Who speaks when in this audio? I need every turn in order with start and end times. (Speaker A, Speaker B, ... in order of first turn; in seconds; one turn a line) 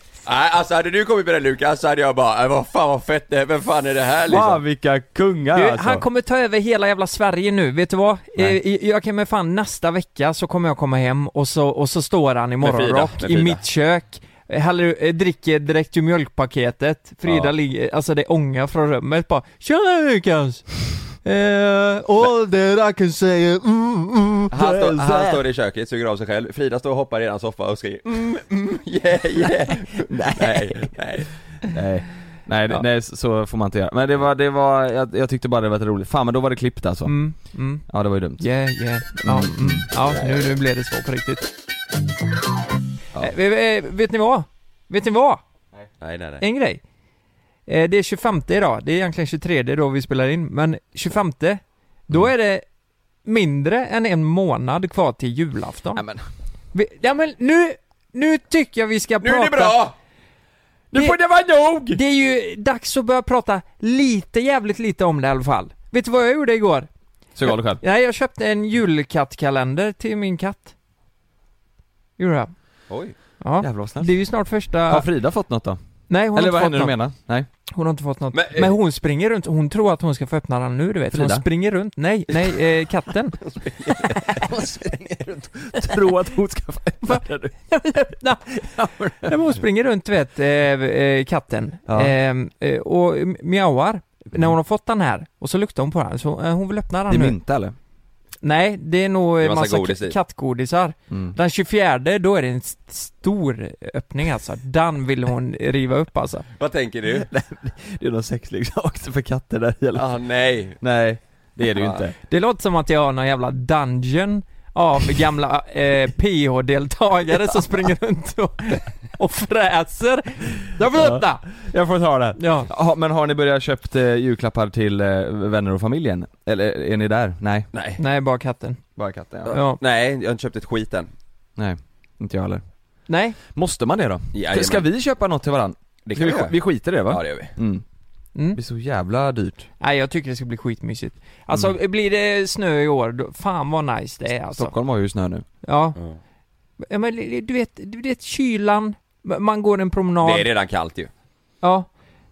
Speaker A: 0.2-4.6
Speaker B: 4.3-6.0
Speaker C: 5.5-24.5
Speaker A: 12.6-13.6
Speaker A: 17.2-17.5
Speaker A: 24.5-31.3
Speaker B: 24.6-25.4
Speaker B: 30.1-30.9
Speaker B: 31.6-37.2
Speaker C: 37.0-37.9
Speaker B: 37.9-38.5
Speaker C: 38.4-41.5
Speaker B: 39.2-39.9
Speaker C: 43.2-45.4
Speaker A: 46.0-46.4
Speaker C: 46.4-46.8
Speaker C: 47.7-52.6
Speaker C: 53.2-56.0
Speaker B: 56.0-56.2
Speaker C: 56.7-59.8
Speaker A: 59.2-59.9
Speaker B: 60.9-62.0
Speaker C: 60.9-61.2
Speaker C: 61.9-66.9
Speaker B: 67.3-67.8
Speaker C: 67.4-70.7
Speaker C: 72.2-72.5
Speaker A: 72.9-73.1
Speaker C: 73.4-75.1
Speaker B: 73.6-74.1
Speaker B: 74.9-75.8
Speaker C: 76.1-77.0
Speaker B: 76.3-77.5
Speaker C: 77.7-83.5
Speaker A: 78.3-78.7
Speaker B: 81.1-81.5
Speaker A: 83.5-84.2
Speaker B: 84.2-87.5
Speaker C: 87.1-97.4
Speaker B: 88.7-89.4
Speaker B: 91.9-92.1
Speaker B: 97.1-97.7
Speaker C: 98.4-106.5
Speaker A: 99.4-100.2
Speaker A: 106.6-107.3
Speaker B: 107.1-110.1
Speaker A: 109.9-110.8
Speaker B: 110.8-112.2
Speaker A: 111.7-112.0
Speaker C: 112.3-121.6
Speaker B: 120.9-127.7
Speaker C: 122.4-122.7
Speaker A: 127.7-128.0
Speaker C: 128.0-128.8
Speaker B: 129.0-129.5
Speaker A: 129.4-131.1
Speaker C: 129.5-129.8
Speaker B: 131.6-132.6
Speaker C: 133.1-133.4
Speaker B: 133.5-137.8
Speaker A: 134.3-134.8
Speaker A: 136.1-137.5
Speaker C: 138.3-138.6
Speaker B: 138.5-139.7
Speaker C: 139.8-144.7
Speaker B: 144.5-145.4
Speaker C: 145.6-146.0
Speaker C: 146.8-150.5
Speaker A: 150.2-151.1
Speaker C: 151.6-151.9